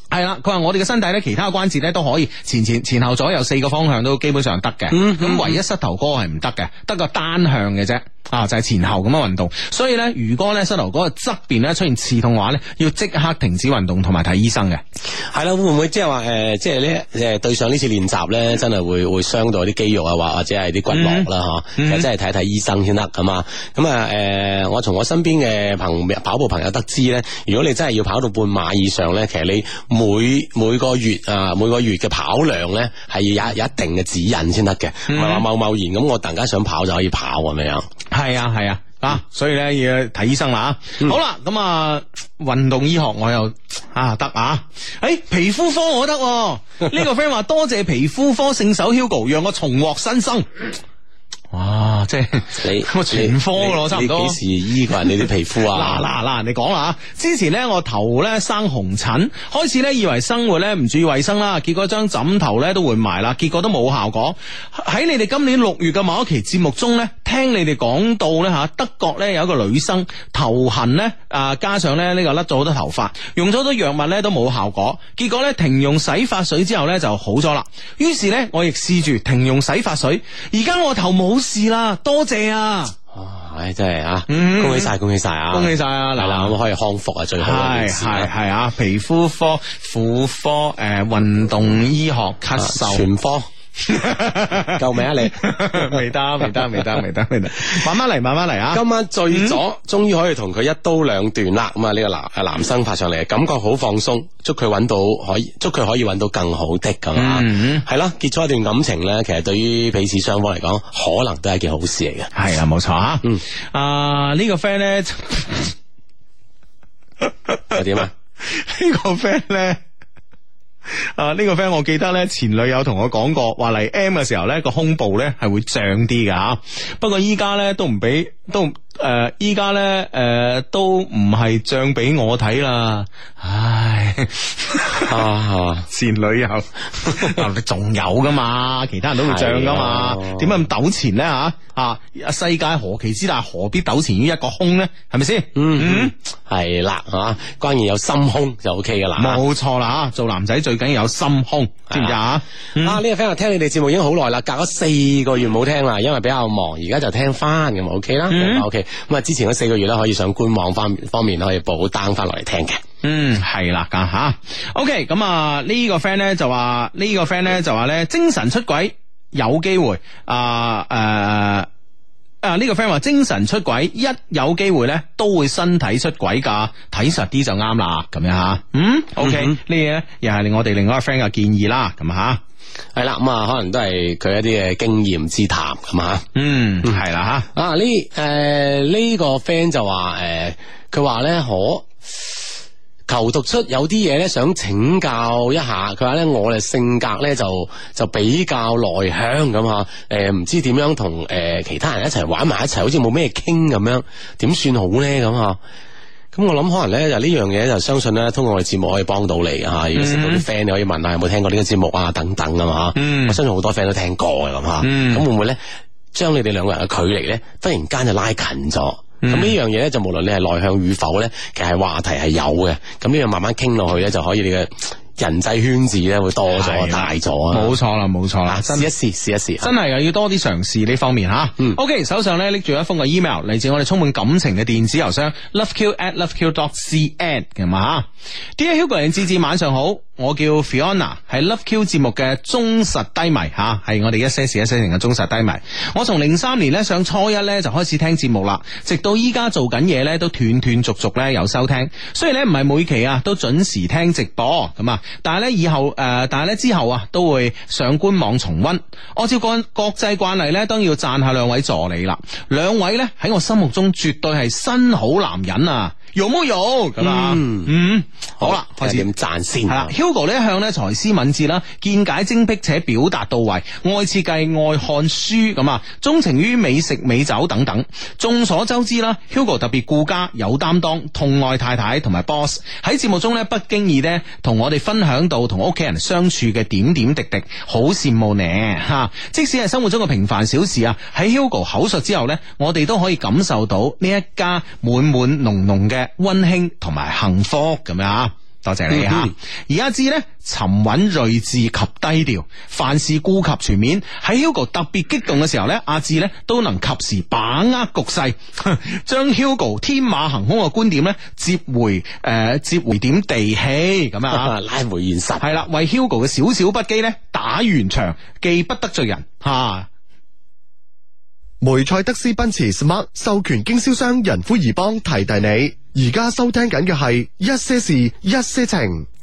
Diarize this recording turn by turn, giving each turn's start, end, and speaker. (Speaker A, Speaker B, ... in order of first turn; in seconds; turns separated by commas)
Speaker A: 0.1-14.8, Speaker B: 4.9-5.6, Speaker B: 15.3-37.9, Speaker A: 20.9-22.1, Speaker A: 35.1-35.5, Speaker A: 38.1-50.5, Speaker A: 51.5-54.4, Speaker B: 52.6-56.0, Speaker A: 55.7-83.0, Speaker B: 83.1-88.3, Speaker A: 84.3-84.9, Speaker A: 85.5-86.5, Speaker A: 87.4-93.0, Speaker B: 92.6-93.5, Speaker A: 93.8-99.6, Speaker B: 94.7-97.0, Speaker B: 97.6-97.9, Speaker B: 98.7-112.3, Speaker A: 107.2-107.8, Speaker A: 112.3-115.7, Speaker A: 117.2-117.8, Speaker B: 117.7-118.1, Speaker A: 118.4-119.8, Speaker A: 120.9-135.1, Speaker B: 135.1-135.9, Speaker A: 135.9-146.1, Speaker B: 137.2-137.4, Speaker B: 139.2-140.6, Speaker B: 145.6-149.4, Speaker A: 149.2-153.0, Speaker B: 151.9-152.2, Speaker B: 152.8-162.8, Speaker A: 158.3-158.7, Speaker A: 163.0-171.7, Speaker A: 172.4-182.4, Speaker B: 179.2-179.6, Speaker B: 182.9-186.2, Speaker A: 186.3-187.5, Speaker B: 187.5-191.9, Speaker B: 193.1-205.6, Speaker B: 206.3-215.6, Speaker A: 209.9-210.4, Speaker A: 212.9-213.4, Speaker A: 214.8-215.2, Speaker B: 216.1-227.8, Speaker A: 219.2-219.6, Speaker A: 226.5-228.9, Speaker B: 228.5-229.7, Speaker A: 229.6-269.1, Speaker B: 267.0-267.7, Speaker B: 268.4-269.9, Speaker A: 269.7-314.5, Speaker B: 298.9-299.3, Speaker B: 314.3-315.6, Speaker A: 315.4-319.9, Speaker C: 321.6-329.1